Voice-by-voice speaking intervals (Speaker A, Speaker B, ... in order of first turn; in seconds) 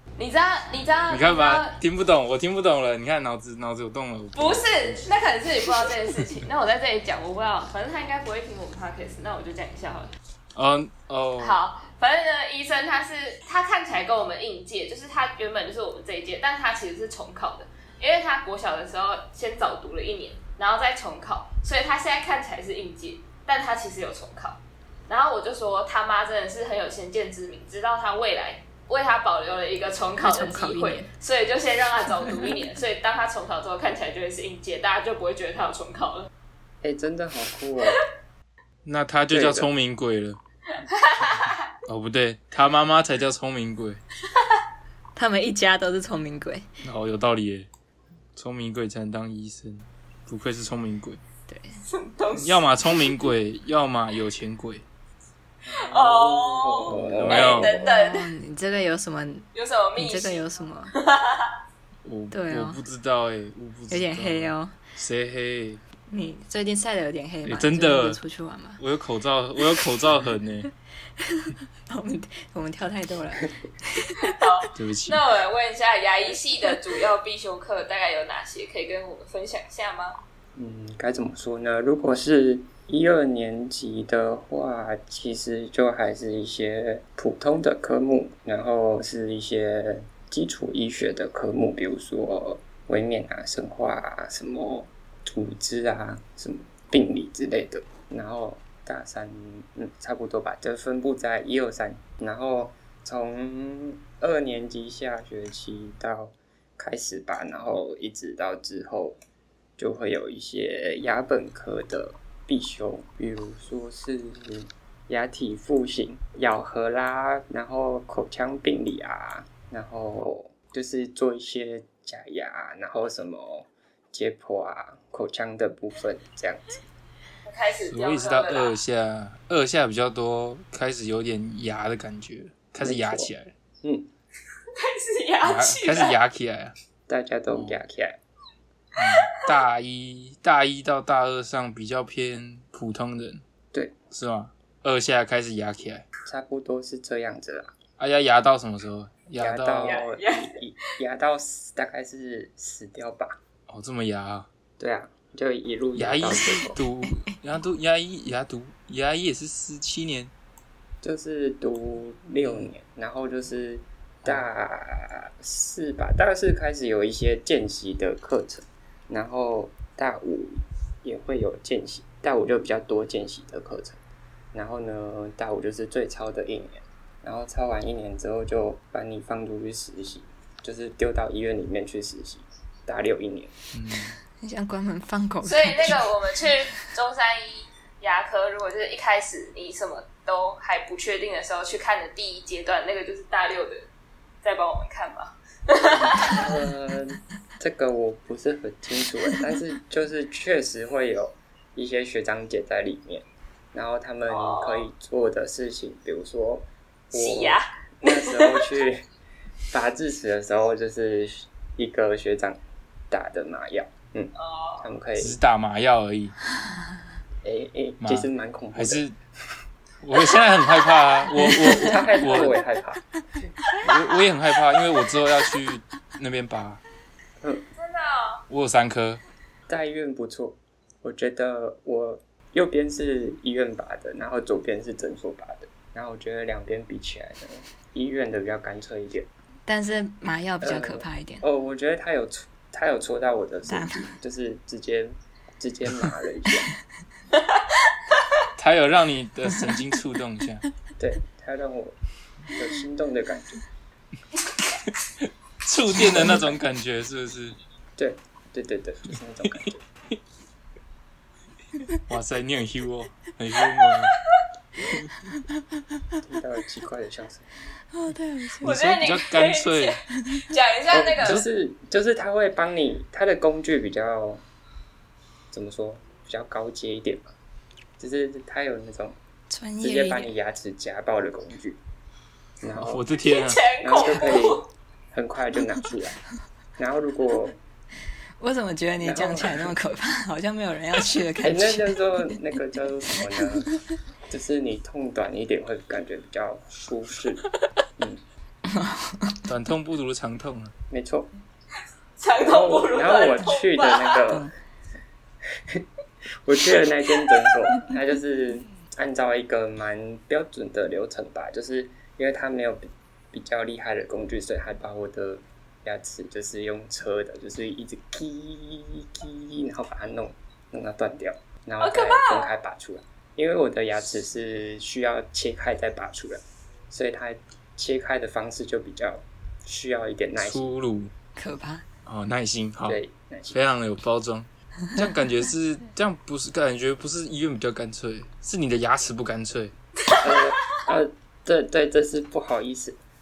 Speaker A: 0.2-1.8, 4.4-10.1, 11.4-36.3, 40.9-41.6, 51.9-53.1, 55.7-58.3, 59.5-61.5, 74.2-80.2, 127.5-128.8, 134.7-136.1, 149.8-150.6, 185.4-193.9, 194.4-196.5, 204.3-204.9, 207.1-208.7, 214.4-214.8, 227.8-228.4, 268.6-271.4, 283.2-284.7, 302.2-304.2, 321.8-322.5, 340.1-340.8
Speaker B: 1.1-5.1, 10.6-11.6, 38.9-40.4, 41.9-44.0, 46.8-47.7, 48.4-51.2, 52.4-54.9, 57.1-57.8, 62.0-65.8, 67.5-68.2, 68.8-70.7, 74.8-75.2, 127.9-133.5, 135.4-136.7, 137.5-137.8, 139.0-143.4, 144.1-146.1, 148.0-150.0, 153.7-154.5, 155.9-160.3, 162.4-162.7, 183.7-184.2, 215.2-216.3, 218.0-219.2, 220.0-222.6, 223.8-226.8, 228.5-229.2, 248.6-250.6, 254.9-257.6, 262.1-264.1, 268.6-270.0, 271.2-271.5, 282.8-283.6, 299.5-300.7, 330.4-331.1, 332.1-333.0, 333.5-339.7
Speaker C: 30.2-31.1, 32.3-32.6, 45.2-46.7, 51.5-51.8, 57.6-60.9, 62.3-62.8, 63.9-64.8, 66.1-68.8, 71.2-74.4, 184.4-186.1, 239.7-241.4, 243.7-244.1, 267.9-268.8, 279.5-280.3, 288.4-292.4, 293.4-293.8, 298.7-299.4, 331.4-331.9
Speaker D: 36.8-38.0, 39.3-39.7, 55.7-57.6, 80.5-109.2, 109.8-126.8, 132.8-133.3, 133.8-134.1, 137.1-138.2, 146.3-147.7, 149.4-153.4, 154.8-156.8, 161.0-174.0, 174.5-183.5, 195.9-209.0, 209.7-215.4, 217.4-219.0, 221.5-223.0, 229.7-239.3, 240.6-246.7, 251.0-252.0, 252.5-253.6, 256.0-256.3, 258.0-259.8, 266.2-267.5, 270.9-274.4, 275.5-277.3, 278.0-279.2, 279.8-281.8, 282.6-283.0, 283.8-286.2, 286.8-287.6, 289.0-289.7, 291.4-293.8, 294.3-297.5, 300.9-301.3, 302.4-304.5, 306.4-330.7, 332.8-333.6, 340.2-343.0